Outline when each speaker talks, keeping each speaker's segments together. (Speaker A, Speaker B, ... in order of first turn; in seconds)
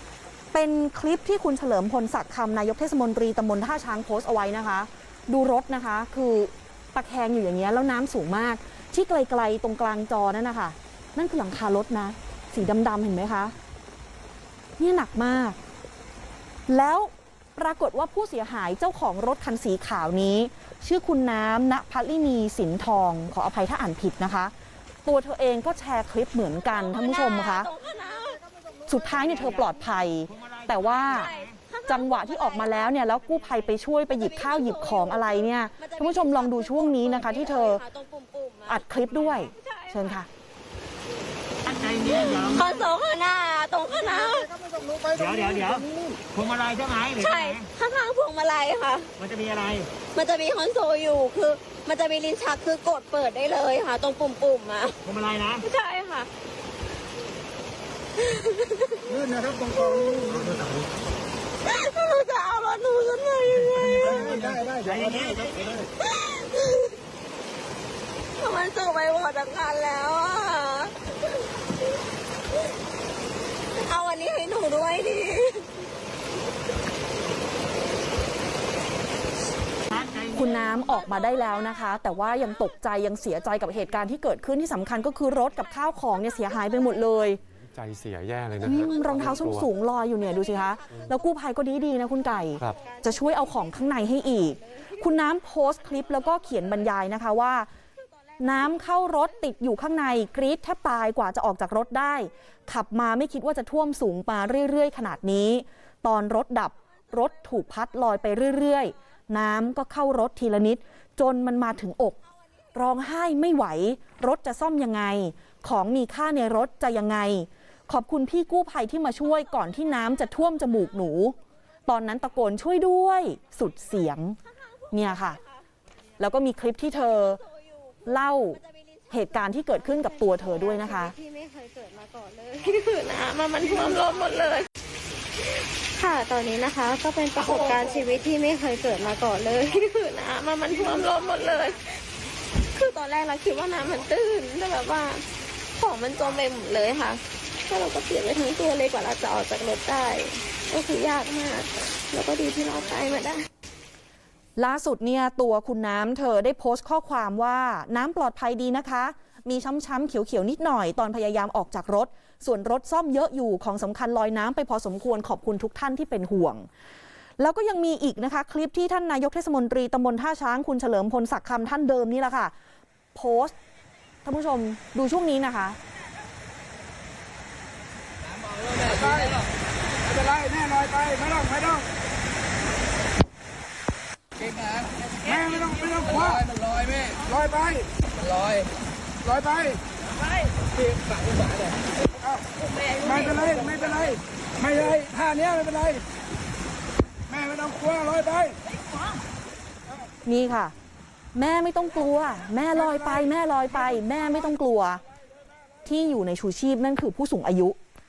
Speaker A: 0.5-13.5, 14.8-15.6, 16.7-24.5, 25.0-27.7, 28.9-31.3, 31.9-37.8, 38.7-40.3, 80.3-87.4, 88.6-97.7, 98.4-112.2, 112.7-121.3, 121.9-124.4, 124.9-125.4, 126.2-127.4, 128.1-128.6, 129.1-131.1, 154.6-166.7, 167.4-172.5, 173.1-173.6, 174.2-175.8, 200.2-200.7, 201.3-205.0, 205.8-207.8
Speaker B: 26.8-28.4, 31.1-33.1, 34.1-40.2, 42.0-44.9, 47.2-49.1, 50.1-55.0, 55.6-56.3, 58.2-60.5, 61.6-64.6, 66.0-67.0, 68.4-71.0, 73.8-75.7, 90.4-91.0, 92.7-94.4, 125.0-125.4, 127.4-134.7, 135.9-141.8, 142.7-145.2, 145.8-153.4, 192.8-193.2
Speaker C: 30.3-31.5, 41.6-42.9, 45.1-47.7, 49.2-49.9, 55.0-55.6, 64.2-65.8, 79.9-80.6
Speaker D: 87.7-89.7
Speaker E: 178.9-179.4, 180.1-181.9, 185.2-186.5, 187.1-187.9, 189.2-189.8, 193.0-196.0, 197.3-198.6